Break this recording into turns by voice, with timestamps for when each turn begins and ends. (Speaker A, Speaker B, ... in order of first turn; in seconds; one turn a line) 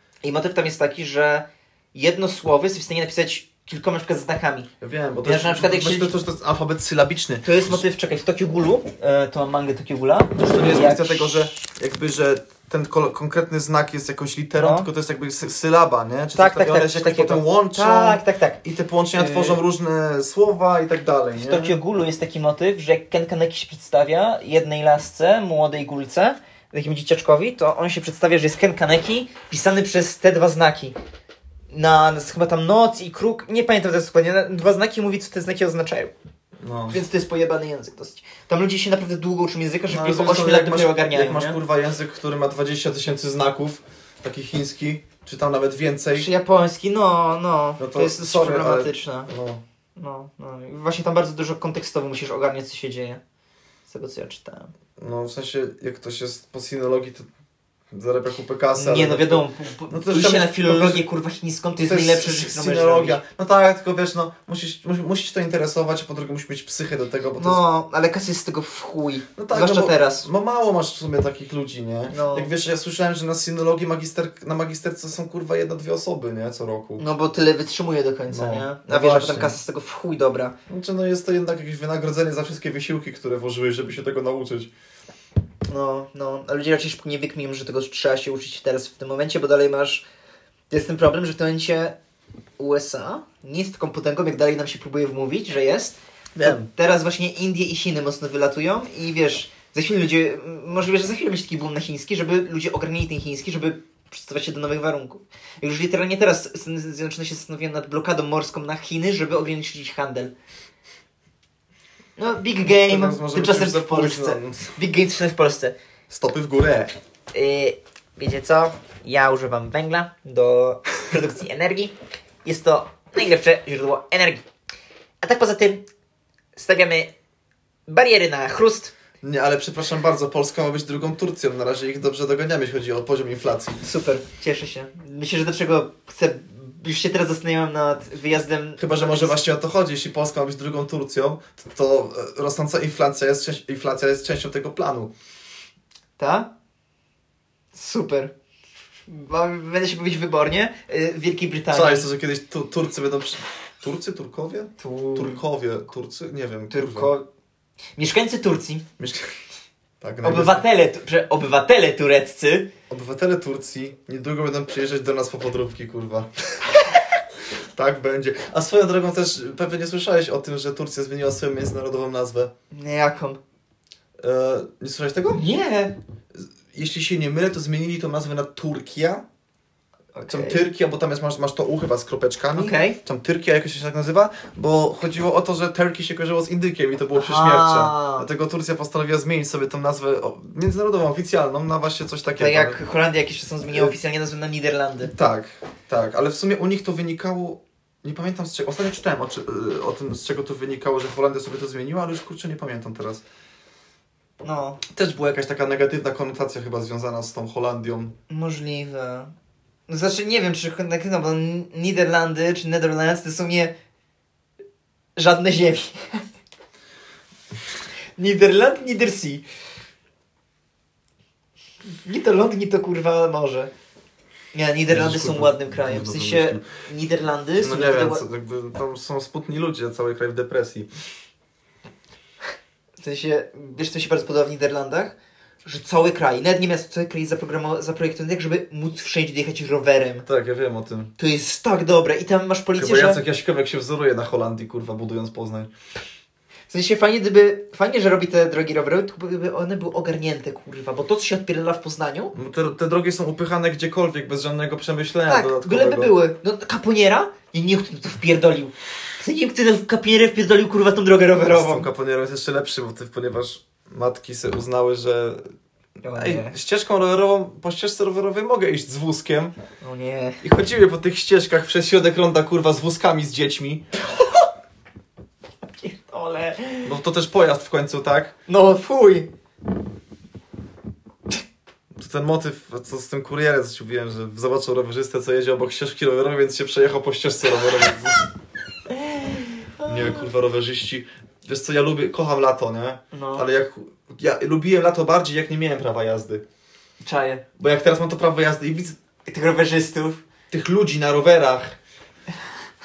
Speaker A: 0.2-4.7
Speaker B: 4.8-7.8
Speaker A: 5.2-6.1
Speaker A: 7.4-11.5
Speaker B: 10.4-21.7
Speaker A: 14.6-14.9
Speaker A: 16.3-18.6
Speaker A: 19.1-19.6
Speaker A: 21.4-30.9
Speaker A: 31.7-36.1
Speaker B: 36.6-37.0
Speaker A: 36.9-41.6
Speaker B: 39.9-46.3
Speaker A: 46.1-49.3
Speaker B: 47.8-49.6
Speaker A: 50.0-53.2
Speaker A: 53.9-54.7
Speaker B: 55.0-57.3
Speaker B: 57.9-61.0
Speaker A: 58.7-63.2
Speaker B: 61.8-67.6
Speaker A: 67.4-70.3
Speaker B: 69.3-77.0
Speaker A: 72.1-72.5
Speaker A: 77.0-80.5
Speaker B: 78.3-79.6
Speaker B: 80.7-84.7
Speaker A: 85.7-90.0
Speaker A: 90.7-92.0
Speaker A: 92.6-110.3
Speaker B: 96.3-96.7
Speaker A: 112.2-115.7
Speaker B: 112.6-114.7
Speaker B: 116.1-116.9
Speaker A: 117.3-121.9
Speaker A: 122.4-124.4
Speaker A: 125.2-125.9
Speaker A: 126.5-127.1
Speaker A: 127.9-128.9
Speaker B: 129.2-133.8
Speaker A: 133.8-139.4
Speaker B: 138.8-145.1
Speaker A: 146.2-146.5
Speaker A: 147.7-148.3
Speaker A: 149.1-152.1
Speaker B: 151.7-157.1
Speaker A: 154.8-155.4
Speaker A: 156.7-157.2
Speaker A: 158.0-158.8
Speaker B: 159.0-159.3
Speaker B: 160.0-160.6
Speaker A: 160.2-162.7
Speaker B: 162.9-166.3
Speaker B: 167.7-172.5
Speaker A: 172.7-173.4
Speaker B: 174.2-175.4
Speaker A: 175.3-175.9
Speaker B: 176.3-179.2
Speaker A: 180.1-180.6
Speaker B: 180.3-192.8
Speaker A: 182.5-183.0
Speaker A: 187.1-188.3
Speaker A: 192.4-195.1
Speaker B: 195.1-203.2
Speaker A: 204.4-204.8
Speaker B: 204.9-208.1
Speaker A: 208.3-209.3
Speaker A: 209.9-213.7
Speaker A: 215.2-216.2
Speaker A: 218.2-219.4
Speaker A: 222.0-223.7
Speaker A: 224.5-228.2
Speaker B: 224.9-226.6
Speaker B: 227.6-230.9
Speaker A: 233.0-240.2
Speaker B: 240.2-241.1
Speaker A: 241.2-243.2
Speaker B: 242.8-245.7
Speaker A: 246.7-252.3
Speaker B: 252.3-256.1
Speaker A: 255.3-261.9
Speaker B: 261.5-265.4
Speaker A: 266.0-266.5
Speaker B: 266.1-269.5
Speaker A: 269.8-270.4
Speaker B: 270.4-273.8
Speaker A: 274.1-274.5
Speaker A: 275.7-276.9
Speaker B: 276.8-278.3
Speaker A: 278.5-279.3
Speaker B: 281.9-288.3
Speaker A: 288.9-290.2
Speaker B: 289.8-296.4
Speaker A: 293.1-293.5
Speaker A: 297.0-297.4
Speaker B: 297.6-299.0
Speaker A: 299.2-300.2
Speaker B: 300.5-301.8